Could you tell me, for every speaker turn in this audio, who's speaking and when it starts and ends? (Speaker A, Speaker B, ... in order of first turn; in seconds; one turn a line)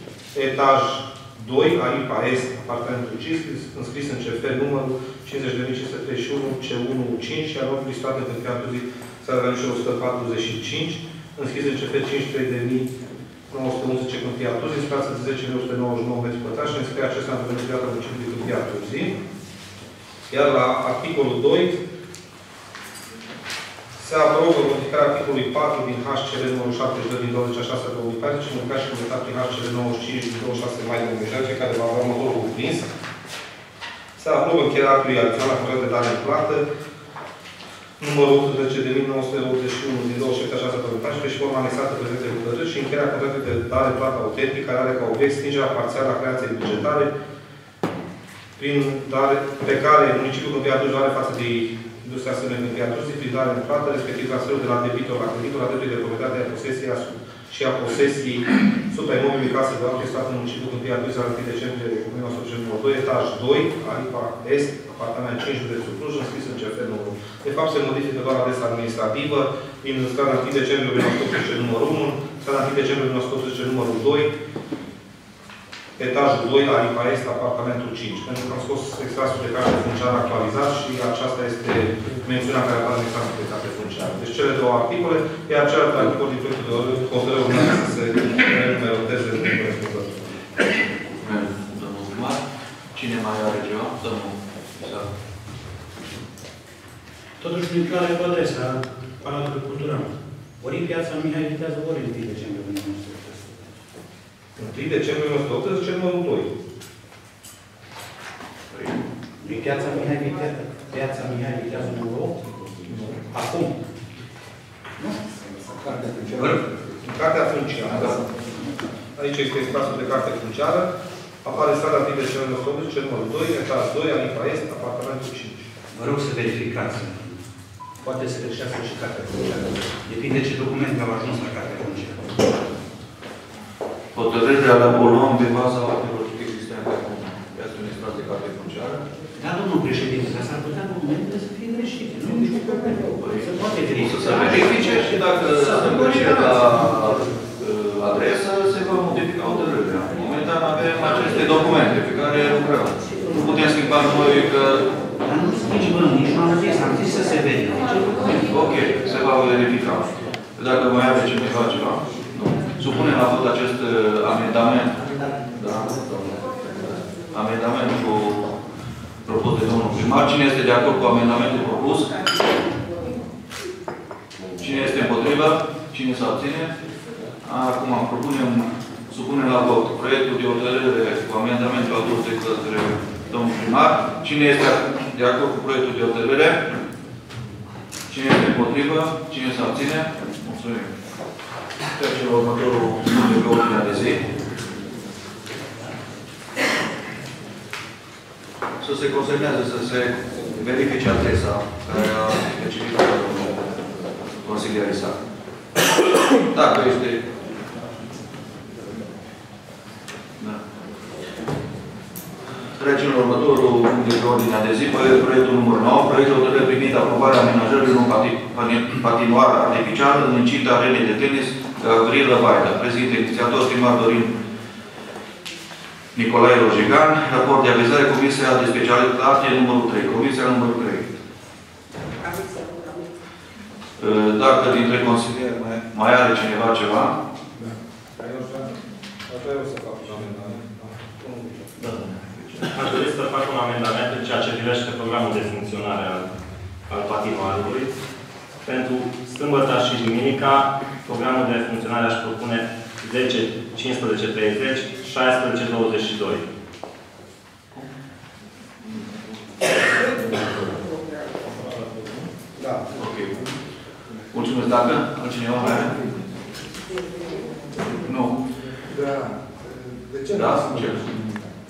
Speaker A: 0.3-12.9
Speaker A: 13.5-19.1
Speaker A: 20.3-21.8
Speaker A: 24.0-32.9
Speaker A: 34.2-36.6
Speaker A: 38.0-47.1
Speaker A: 48.6-74.3
Speaker A: 76.0-90.3
Speaker B: 91.2-92.4
Speaker B: 92.9-95.1
Speaker C: 97.4-103.7
Speaker A: 104.6-106.5
Speaker B: 108.7-109.1
Speaker C: 109.4-113.7
Speaker A: 112.9-113.2
Speaker C: 115.0-116.7
Speaker A: 117.0-118.2
Speaker A: 119.2-120.9
Speaker A: 121.4-125.7
Speaker C: 125.9-127.4
Speaker C: 128.0-132.3
Speaker B: 134.1-139.0
Speaker C: 139.4-147.2
Speaker B: 143.2-154.9
Speaker C: 155.2-158.4
Speaker B: 158.5-168.5
Speaker B: 169.2-172.1
Speaker B: 174.6-176.7
Speaker B: 177.4-186.6
Speaker B: 188.1-190.9
Speaker B: 191.9-194.2
Speaker B: 198.8-203.7
Speaker B: 204.4-205.2
Speaker B: 206.4-207.2
Speaker B: 212.8-224.3
Speaker B: 226.2-231.2
Speaker B: 234.0-237.2
Speaker A: 238.2-238.7
Speaker A: 239.3-241.6
Speaker B: 241.8-242.8
Speaker D: 242.7-246.3
Speaker D: 246.9-247.9
Speaker D: 248.6-256.5
Speaker B: 262.9-263.5
Speaker B: 264.3-266.0
Speaker B: 268.0-268.4
Speaker B: 270.3-271.2